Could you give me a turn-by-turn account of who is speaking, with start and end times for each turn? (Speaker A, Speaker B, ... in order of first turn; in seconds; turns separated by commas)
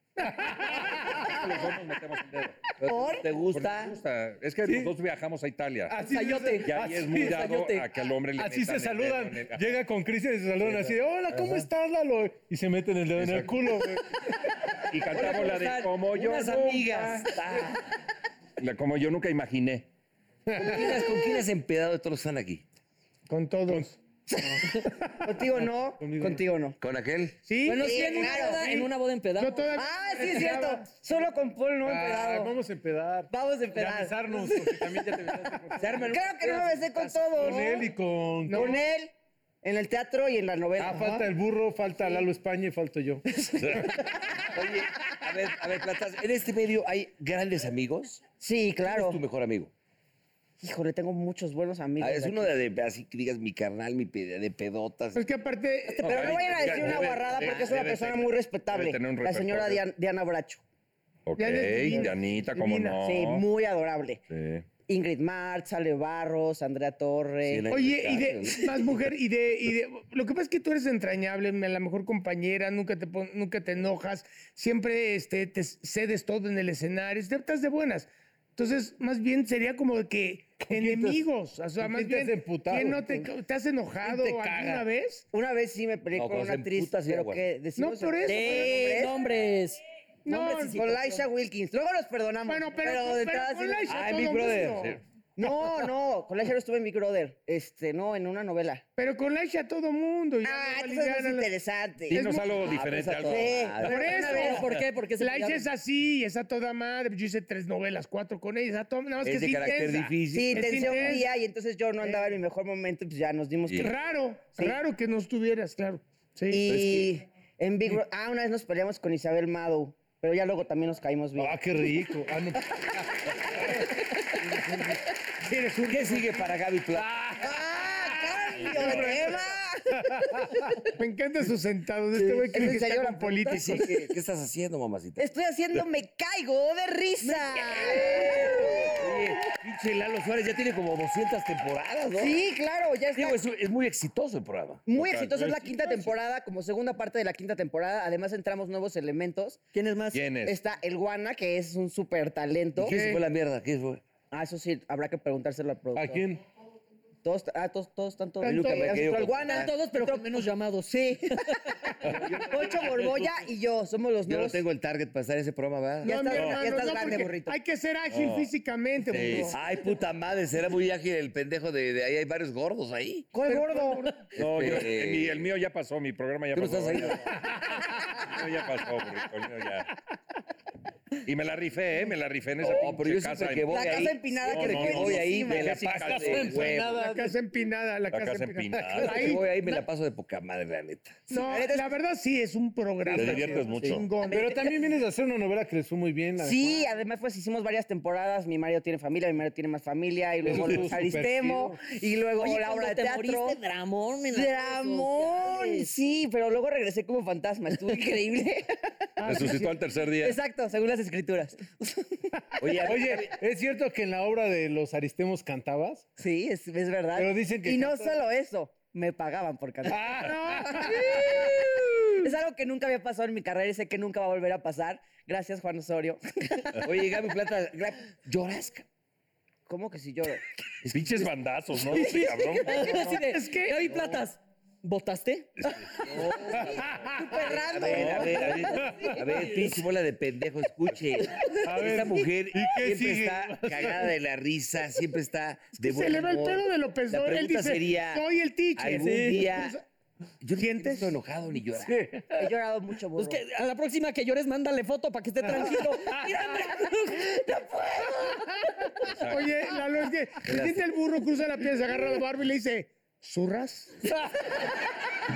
Speaker A: 0.2-1.4, Speaker B: 0.5-2.6, Speaker C: 2.8-4.0, Speaker D: 2.9-3.2, Speaker B: 3.5-6.0, Speaker A: 4.7-4.9, Speaker A: 5.9-7.4, Speaker E: 6.0-7.9, Speaker B: 6.6-9.8, Speaker A: 8.4-14.2, Speaker B: 10.6-11.7, Speaker B: 13.2-13.6, Speaker B: 14.9-17.3, Speaker C: 15.1-17.9, Speaker B: 18.6-19.9, Speaker A: 20.5-21.0, Speaker C: 20.6-22.6, Speaker F: 23.3-23.9, Speaker A: 23.7-26.4, Speaker D: 24.6-26.8, Speaker C: 26.8-27.4, Speaker F: 27.5-30.9, Speaker E: 27.6-29.8, Speaker D: 27.8-28.7, Speaker D: 29.8-32.5, Speaker A: 31.8-36.1, Speaker D: 33.3-34.8, Speaker C: 35.8-37.5, Speaker D: 36.0-37.9, Speaker A: 37.4-38.8, Speaker F: 38.5-38.8, Speaker D: 38.5-41.3, Speaker A: 40.8-43.2, Speaker D: 43.4-43.8, Speaker C: 44.4-48.2, Speaker D: 48.4-49.2, Speaker C: 48.8-49.7, Speaker D: 50.6-52.5, Speaker C: 52.0-55.3, Speaker F: 55.1-56.5, Speaker D: 56.0-60.6, Speaker B: 56.0-59.8, Speaker C: 56.0-58.1, Speaker B: 61.3-63.5, Speaker F: 61.4-63.0, Speaker D: 63.0-64.2, Speaker B: 64.3-64.7, Speaker D: 64.9-67.7, Speaker C: 67.5-69.0, Speaker F: 67.7-85.3, Speaker A: 80.6-81.2, Speaker A: 81.8-83.3, Speaker A: 84.0-84.9, Speaker D: 85.3-89.2, Speaker C: 86.1-87.5, Speaker F: 87.8-89.0, Speaker E: 88.2-91.2, Speaker F: 90.3-90.8, Speaker D: 90.7-94.0, Speaker F: 92.5-95.0, Speaker C: 93.9-95.0, Speaker D: 95.4-98.8, Speaker F: 99.0-101.5, Speaker D: 100.4-104.6, Speaker F: 102.1-102.6, Speaker B: 102.1-103.9, Speaker C: 102.6-104.6, Speaker F: 103.8-111.3, Speaker E: 103.9-105.7, Speaker C: 109.2-111.2, Speaker D: 110.3-113.9, Speaker F: 113.8-116.7, Speaker D: 116.5-121.6, Speaker C: 116.7-117.1, Speaker A: 121.4-123.3, Speaker F: 125.4-126.4, Speaker C: 125.9-127.2, Speaker A: 126.9-129.4, Speaker D: 127.4-130.4, Speaker B: 128.6-129.3, Speaker A: 130.0-130.7, Speaker F: 131.0-134.0, Speaker A: 132.2-132.5, Speaker D: 132.5-133.9, Speaker C: 133.4-135.3, Speaker D: 135.2-139.2, Speaker C: 137.2-142.4, Speaker D: 142.2-143.4, Speaker C: 143.1-144.8, Speaker D: 144.9-149.6, Speaker B: 144.9-146.1, Speaker E: 149.7-150.2, Speaker B: 150.1-150.6, Speaker D: 150.5-153.0, Speaker C: 152.8-154.0, Speaker F: 152.9-153.2, Speaker D: 154.3-156.2, Speaker A: 155.9-156.4, Speaker D: 157.2-164.6, Speaker F: 158.4-159.1, Speaker C: 158.4-159.7, Speaker E: 159.4-161.6, Speaker C: 162.0-163.4, Speaker C: 164.2-166.3, Speaker D: 166.0-167.6, Speaker F: 166.0-169.6, Speaker B: 166.3-166.6, Speaker B: 168.1-168.5, Speaker B: 169.1-169.6, Speaker C: 169.5-173.3, Speaker D: 173.3-174.1, Speaker F: 173.4-174.3, Speaker C: 174.3-175.5, Speaker B: 174.3-179.9, Speaker C: 176.5-177.3, Speaker A: 177.6-177.9, Speaker B: 181.2-186.8, Speaker C: 182.6-187.1, Speaker D: 183.7-185.7, Speaker A: 185.9-187.4, Speaker F: 186.9-189.8, Speaker B: 188.1-189.4, Speaker C: 189.0-191.2, Speaker F: 191.3-194.6, Speaker D: 191.3-191.9, Speaker A: 193.1-193.7, Speaker B: 193.1-194.1, Speaker C: 193.2-194.0, Speaker A: 194.3-196.8, Speaker D: 196.4-203.6, Speaker A: 200.4-201.8, Speaker E: 202.4-205.9, Speaker D: 204.3-209.6, Speaker F: 209.2-209.8, Speaker B: 209.2-210.4, Speaker D: 210.2-212.3, Speaker C: 212.6-213.4, Speaker A: 212.8-216.1, Speaker D: 216.2-226.9, Speaker A: 217.1-218.2, Speaker A: 219.9-221.3, Speaker C: 226.8-228.9, Speaker D: 229.7-230.4, Speaker C: 230.8-231.3, Speaker B: 230.9-233.0, Speaker E: 231.9-235.5, Speaker D: 232.8-233.1, Speaker F: 232.8-233.8, Speaker B: 235.6-235.9, Speaker C: 235.9-248.2, Speaker A: 236.6-237.2, Speaker D: 237.1-239.2, Speaker B: 237.8-238.7, Speaker A: 238.7-239.2, Speaker A: 241.6-244.1, Speaker F: 245.8-249.8, Speaker C: 248.8-249.8, Speaker E: 249.0-249.5, Speaker C: 250.4-251.9, Speaker F: 250.6-251.2, Speaker A: 251.9-252.4, Speaker D: 252.4-253.4, Speaker E: 253.2-257.8, Speaker D: 257.5-258.2, Speaker B: 259.0-259.6, Speaker F: 259.2-264.0, Speaker C: 260.4-260.8